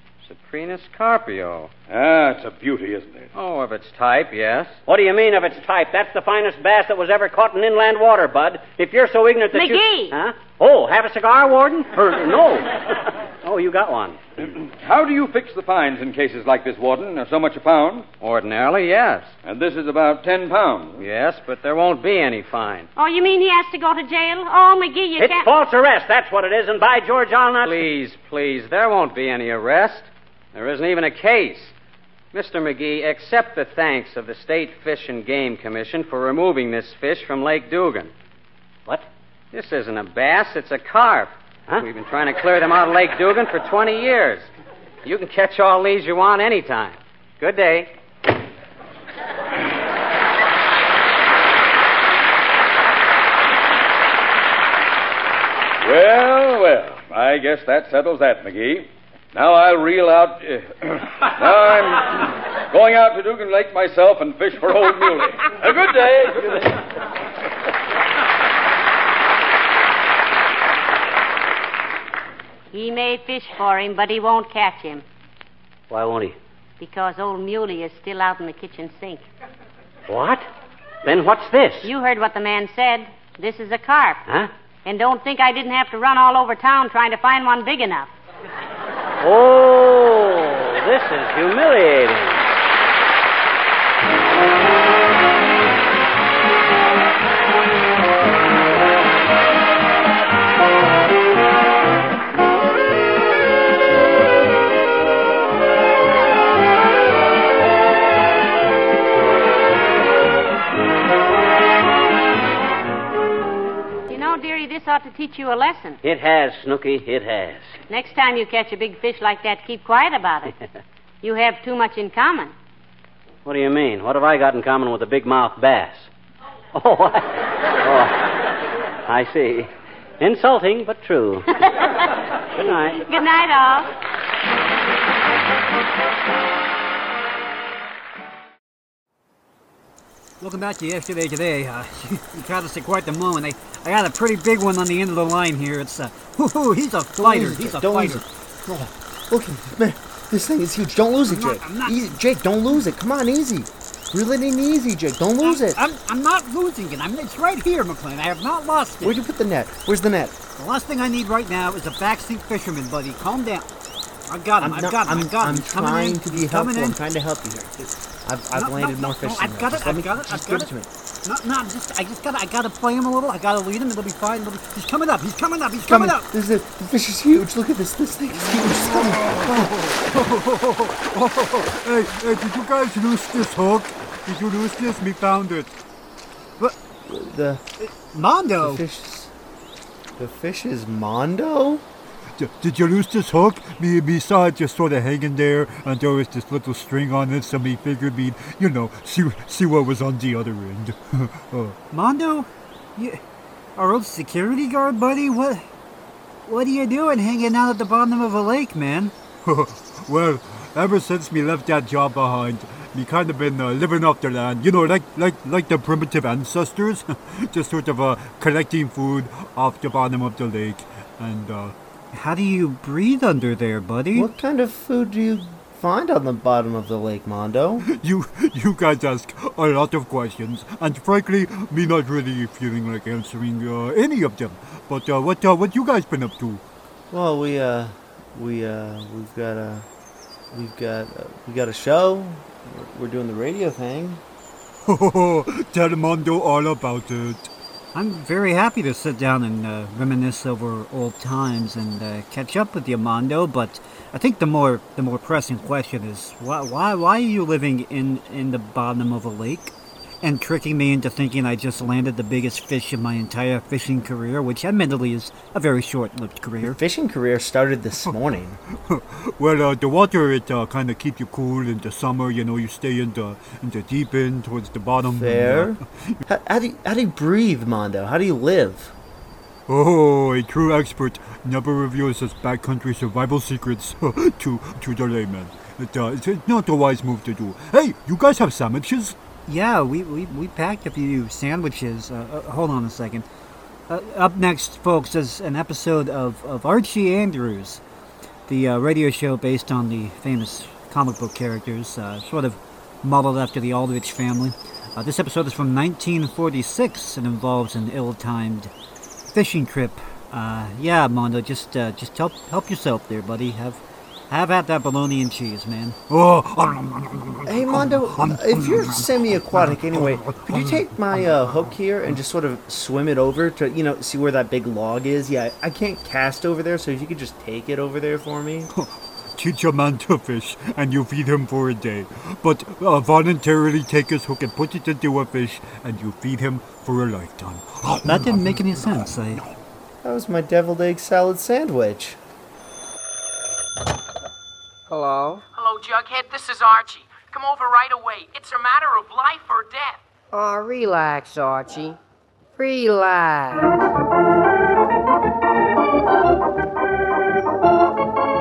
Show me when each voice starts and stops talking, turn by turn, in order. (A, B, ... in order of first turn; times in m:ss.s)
0:00.2-0:01.7 A
0:01.9-0:03.3 B
0:03.3-0:04.8 A
0:04.9-0:14.2 C
0:09.5-0:10.2 D
0:14.4-0:18.1 B
0:18.2-0:19.3 A
0:19.4-0:21.1 B
0:21.0-0:22.9 A
0:23.0-0:25.5 D
0:25.2-0:27.8 C
0:27.6-0:31.7 A
0:32.3-0:38.1 A
0:39.5-0:44.5 A
0:45.0-0:47.9 A
0:55.8-1:06.8 B
1:12.7-1:15.0 D
1:15.9-1:16.4 C
1:16.8-1:19.3 D
1:20.1-1:20.5 C
1:21.0-1:21.9 C
1:21.8-1:24.2 D
1:24.8-1:28.1 D
1:29.2-1:32.4 C
1:54.1-1:56.0 D
1:56.0-1:57.7 C
1:57.9-2:00.5 D
2:01.2-2:02.5 D
2:03.4-2:06.1 C
2:06.7-2:08.3 C
2:09.1-2:09.7 C
2:10.2-2:11.5 C
2:12.6-2:13.0 C
2:12.9-2:13.9 D
2:20.4-2:28.2 E
2:27.2-2:35.8 F
2:31.2-2:32.0 E
2:35.4-2:39.2 E
2:39.0-2:40.4 F
2:40.6-2:43.7 E
2:44.3-2:47.0 E
2:44.6-2:50.9 F
2:48.5-2:50.7 E
2:51.2-2:56.3 E
2:55.9-2:59.8 F
2:59.1-3:05.7 G
3:07.0-3:07.6 F
3:07.8-3:08.8 E
3:08.6-3:09.3 F
3:10.2-3:11.8 F
3:12.4-3:21.8 G
3:21.9-3:23.2 E
3:23.8-3:25.6 E
3:26.5-3:29.2 E
3:29.4-3:41.7 G
3:42.1-3:44.3 E
3:44.1-3:47.9 F
3:47.9-3:56.6 G
3:57.1-3:59.9 F
4:00.5-4:04.2 F
4:04.8-4:07.5 G
4:07.9-4:26.8 E
4:26.6-4:28.6 F
4:28.7-4:36.1 G
4:35.0-4:39.0 F
4:39.7-4:49.2 G
4:49.5-4:53.3 E
4:53.9-4:57.8 E
4:58.5-5:08.7 E
5:09.3-5:16.0 E
5:16.1-5:18.4 G
5:17.5-5:28.7 F
5:28.7-5:39.0 G
5:38.1-5:39.4 E
5:40.0-5:42.2 F
5:44.9-5:45.4 H
5:45.5-5:50.0 I
5:50.3-5:52.0 H
5:52.6-5:53.8 H